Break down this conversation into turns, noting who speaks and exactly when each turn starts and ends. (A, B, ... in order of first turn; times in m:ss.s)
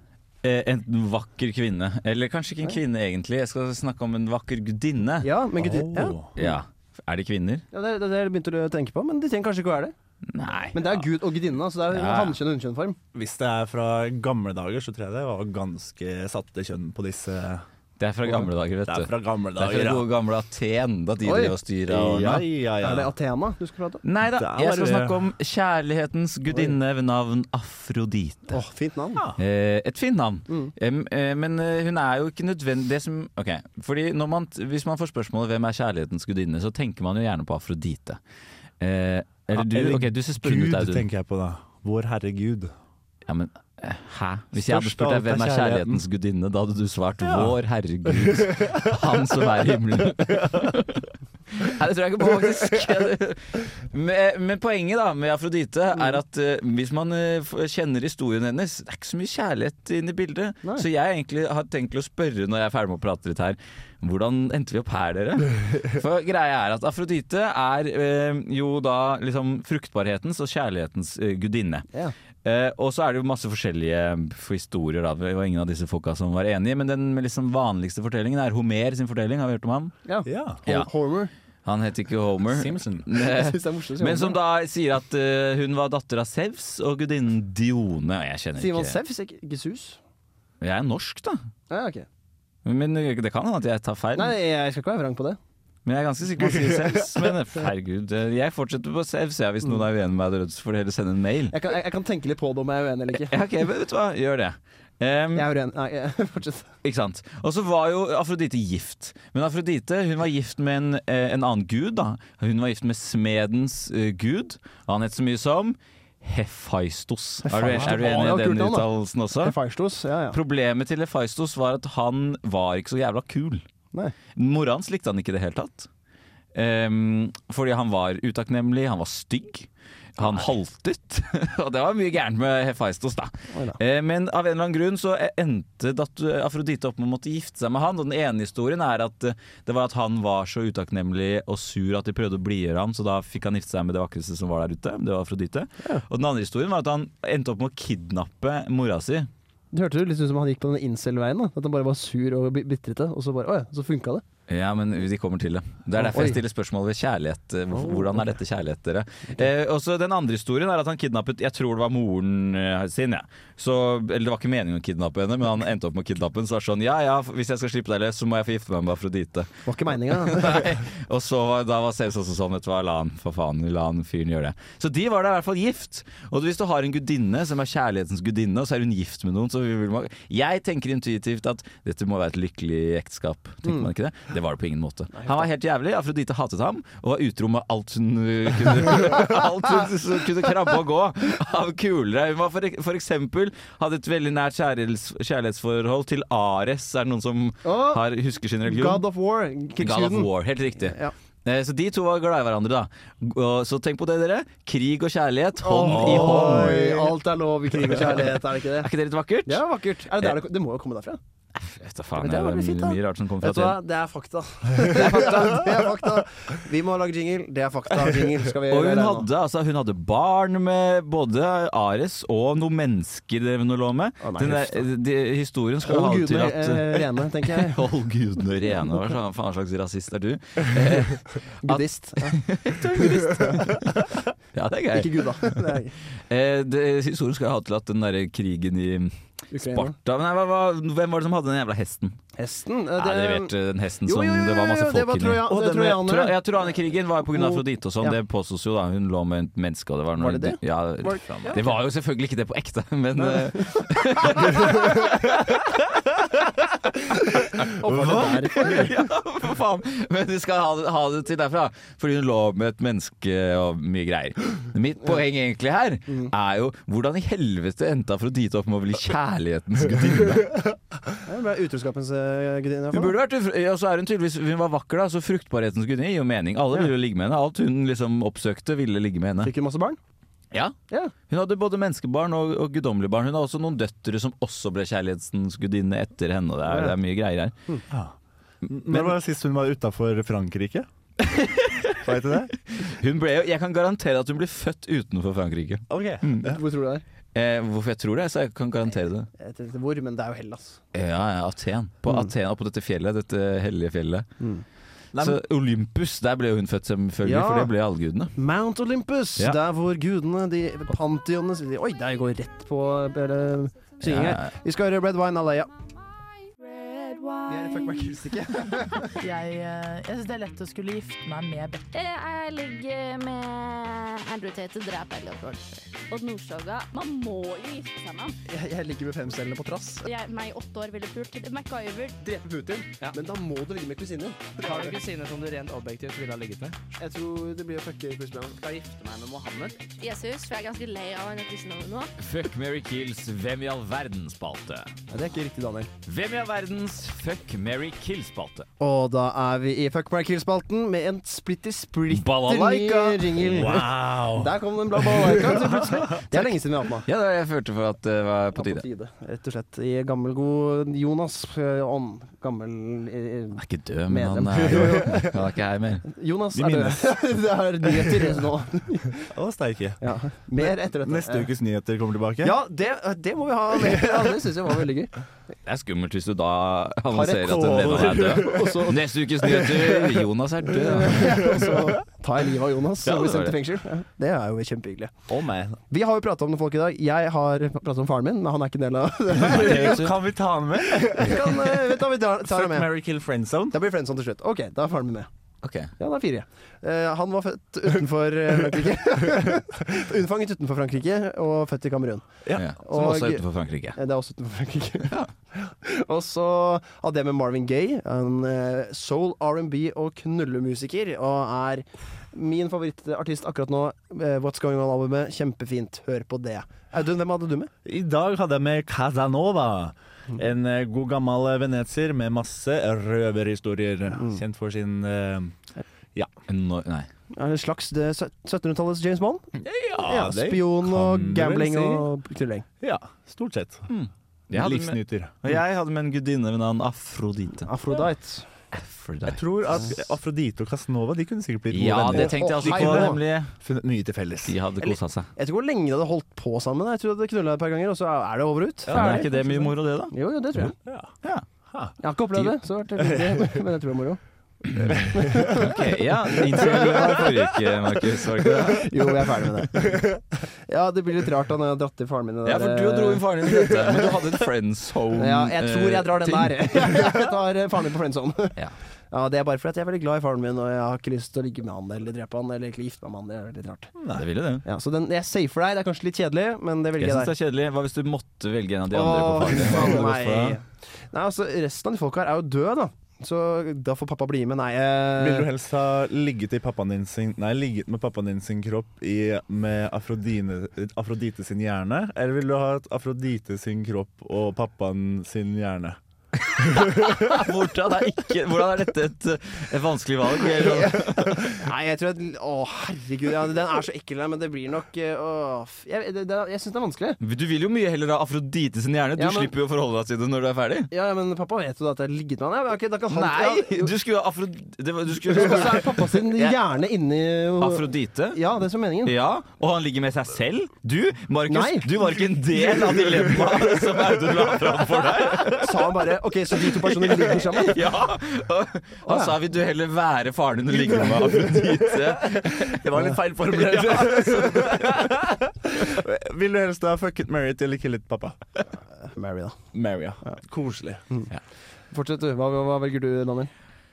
0:00.4-0:05.3 A
0:05.2-0:06.6 B
0:05.6-0:06.3 C
0:06.4-0:07.6 A
0:07.7-0:09.9 B
0:10.3-0:11.1 A
0:10.7-0:13.0 B
0:11.9-0:12.4 A
0:13.1-0:17.6 C
0:18.0-0:22.4 A
0:18.3-0:20.1 C
0:21.2-0:21.5 B
0:21.9-0:23.1 C
0:22.8-0:24.0 B
0:24.0-0:28.6 A
0:24.2-0:25.2 C
0:28.5-0:29.2 B
0:29.4-0:38.2 A
0:38.8-0:41.0 A
0:39.5-0:42.7 C
0:43.2-1:11.8 A
0:44.5-0:46.0 C
0:47.2-0:47.6 C
0:48.2-0:48.8 C
0:50.3-0:50.6 C
1:12.4-1:19.9 A
1:20.0-1:21.3 B
1:20.2-1:20.6 C
1:21.6-1:29.0 A
1:22.5-1:23.0 C
1:23.2-1:24.4 B
1:28.6-1:30.0 B
1:30.6-1:31.4 A
1:31.7-1:32.1 B
1:32.6-1:34.4 A
1:34.2-1:35.4 B
1:35.8-1:41.6 A
1:41.5-1:43.4 B
1:43.2-1:45.5 A
1:45.3-1:46.7 B
1:46.8-1:59.5 A
1:57.4-1:58.9 B
1:57.6-1:57.9 C
1:59.4-2:00.4 B
2:00.3-2:03.6 A
2:04.4-2:05.9 A
2:06.5-2:29.3 A
2:13.5-2:13.8 B
2:29.7-2:34.2 B
2:34.5-3:19.0 A
2:36.0-2:36.4 B
2:37.7-2:38.2 B
2:49.6-2:50.7 B
3:05.1-3:05.4 B
3:17.6-3:18.0 B
3:18.6-3:21.1 B
3:19.8-3:26.7 A
3:25.6-3:28.9 B
3:25.9-3:27.1 C
3:28.2-3:29.6 A
3:29.4-3:31.2 B
3:31.5-3:33.8 A
3:32.1-3:39.3 B
3:34.8-3:35.9 A
3:38.7-3:55.8 A
3:44.2-3:44.9 B
3:45.8-3:47.8 B
3:51.6-3:52.4 B
3:54.9-3:55.9 B
3:56.3-4:02.2 A
3:59.5-4:00.0 B
4:02.4-4:03.5 B
4:03.0-4:16.1 A
4:04.0-4:06.4 B
4:07.3-4:08.2 B
4:10.2-4:11.7 B
4:11.3-4:11.6 C
4:13.2-4:13.8 B
4:17.4-4:30.7 A
4:17.8-4:19.0 B
4:17.9-4:18.2 C
4:31.2-4:33.1 B
4:32.9-4:39.5 A
4:39.4-4:40.0 B
4:41.3-4:47.5 A
4:46.7-4:47.0 B
4:47.9-4:50.9 C
4:51.2-4:52.0 A
4:52.0-4:52.5 C
4:52.7-4:56.4 A
4:55.9-4:56.6 C
4:56.4-4:57.0 B
4:57.3-4:59.3 A
4:59.4-5:00.8 B
5:00.9-5:04.3 A
5:05.1-5:05.4 C
5:05.2-5:08.3 A
5:07.2-5:07.7 B
5:08.4-5:15.7 B
5:14.0-5:14.5 A
5:16.5-5:18.1 D
5:17.5-5:19.1 B
5:19.1-5:21.9 E
5:21.9-5:28.4 D
5:28.5-5:30.1 B
5:30.0-5:32.2 D
5:32.2-5:34.9 B
5:34.6-5:36.8 F
5:37.0-5:38.6 B
5:38.4-5:39.8 F
5:40.0-5:42.2 D
5:42.2-5:44.9 A
5:45.1-5:45.9 B
5:46.0-5:48.7 A
5:48.8-5:57.0 B
5:52.1-5:53.8 A
5:53.4-5:54.5 C
5:55.2-5:56.1 C
5:57.0-5:58.8 A
5:58.6-6:05.3 B
6:03.6-6:06.0 A
6:06.1-6:09.3 B
6:06.5-6:07.2 C
6:08.0-6:08.3 C
6:09.3-6:10.0 C
6:10.0-6:11.5 B
6:10.6-6:12.6 C
6:12.4-6:15.1 B
6:13.9-6:14.2 C
6:15.6-6:21.6 A
6:17.1-6:19.0 B
6:17.4-6:18.9 C
6:19.4-6:20.2 C
6:20.7-6:25.1 B
6:21.3-6:21.7 C
6:23.0-6:23.5 A
6:25.3-6:25.8 C
6:25.9-6:30.0 B
6:29.3-6:33.8 C
6:29.3-6:30.2 A
6:31.1-6:32.9 B
6:33.7-6:35.3 B
6:35.6-6:35.9 A
6:36.0-6:42.3 B
6:42.4-6:42.7 C
6:42.5-6:44.0 A
6:42.8-6:43.4 B
6:43.9-6:57.7 B
6:57.8-7:05.6 C
7:06.5-7:07.1 A
7:07.3-7:09.4 B
7:09.6-7:12.1 C
7:10.0-7:12.6 B
7:12.8-7:13.9 C
7:13.9-7:17.7 A
7:14.5-7:15.3 C
7:17.6-7:18.4 B
7:18.7-7:19.4 A
7:19.2-7:24.6 C
7:21.7-7:23.5 A
7:22.1-7:23.2 B
7:24.4-7:25.3 A
7:24.8-7:30.7 B
7:28.9-7:29.4 C
7:28.9-7:30.1 A
7:30.6-7:31.1 C
7:32.0-7:34.2 B
7:33.0-7:33.6 C
7:34.7-7:39.2 A
7:34.8-7:35.7 C
7:35.1-7:35.8 B
7:36.5-7:37.3 B
7:36.5-7:37.7 C
7:38.7-7:40.0 B
7:40.7-7:43.8 B
7:42.4-7:46.9 A
7:45.2-7:48.6 B
7:49.1-7:53.9 B
7:54.0-7:54.2 C
7:54.1-7:54.6 A
7:54.6-7:57.3 B
7:57.0-8:00.6 A
7:58.9-8:05.5 B
8:05.2-8:16.0 C
8:16.5-8:21.5 A
8:16.7-8:17.4 C
8:21.0-8:27.2 B
8:27.2-8:30.9 A
8:29.2-8:29.5 B
8:30.9-8:33.9 B
8:33.1-8:36.6 A
8:35.2-8:39.1 B
8:37.6-8:38.4 A
8:39.0-8:45.7 A
8:41.5-8:41.9 B
8:42.2-8:45.7 C
8:45.6-8:47.8 B
8:46.9-8:55.2 A
8:49.0-8:49.4 B
8:51.4-8:58.4 C
8:59.1-8:59.5 B
8:59.7-9:01.0 C
9:01.9-9:03.5 B